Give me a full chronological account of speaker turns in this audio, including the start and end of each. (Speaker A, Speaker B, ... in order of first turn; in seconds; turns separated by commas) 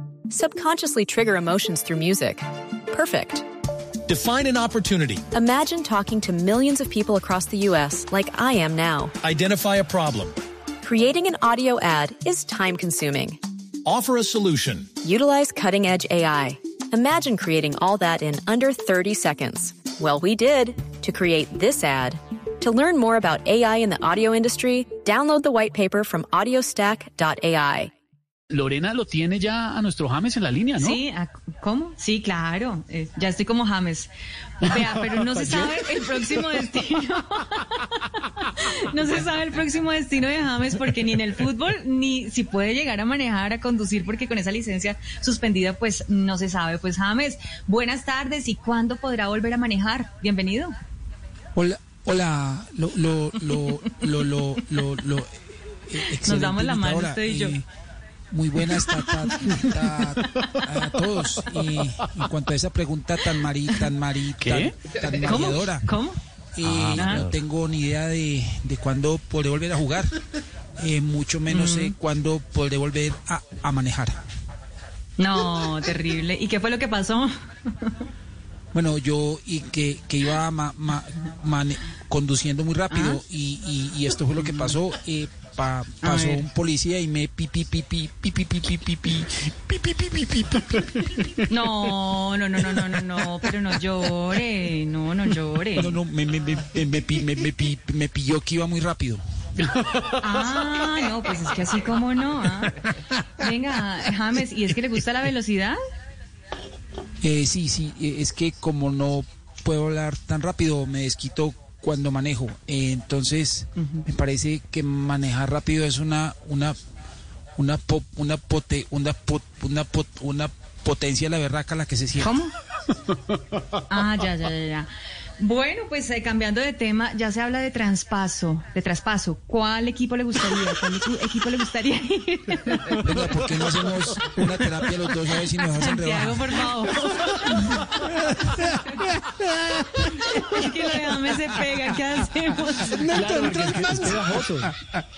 Speaker A: 0.3-3.5, Speaker B: 4.0-5.2, Speaker A: 5.3-9.1, Speaker B: 9.2-10.3, Speaker A: 10.8-13.4, Speaker B: 13.8-14.9, Speaker A: 15.0-27.9, Speaker C: 28.5-31.0, Speaker D: 30.8-34.1, Speaker D: 34.6-50.8, Speaker C: 35.4-35.7, Speaker E: 51.5-57.6, Speaker D: 56.1-57.5, Speaker E: 58.3-65.9, Speaker D: 58.9-60.1, Speaker C: 64.4-64.7, Speaker D: 65.2-66.2, Speaker E: 66.5-70.2, Speaker C: 66.6-67.3, Speaker D: 66.9-67.3, Speaker E: 70.8-74.2, Speaker D: 71.5-71.9, Speaker D: 75.2-78.0, Speaker E: 78.7-91.4, Speaker D: 82.9-83.2, Speaker D: 86.0-86.5, Speaker D: 91.5-96.0, Speaker E: 95.8-99.2, Speaker D: 100.2-102.8, Speaker D: 103.3-105.8, Speaker E: 107.2-116.8, Speaker E: 117.5-122.3, Speaker D: 122.2-122.5, Speaker D: 123.9-133.4, Speaker E: 133.0-136.6, Speaker D: 135.6-138.2, Speaker E: 139.6-140.5, Speaker D: 140.0-144.0, Speaker E: 142.8-144.9, Speaker C: 143.1-144.7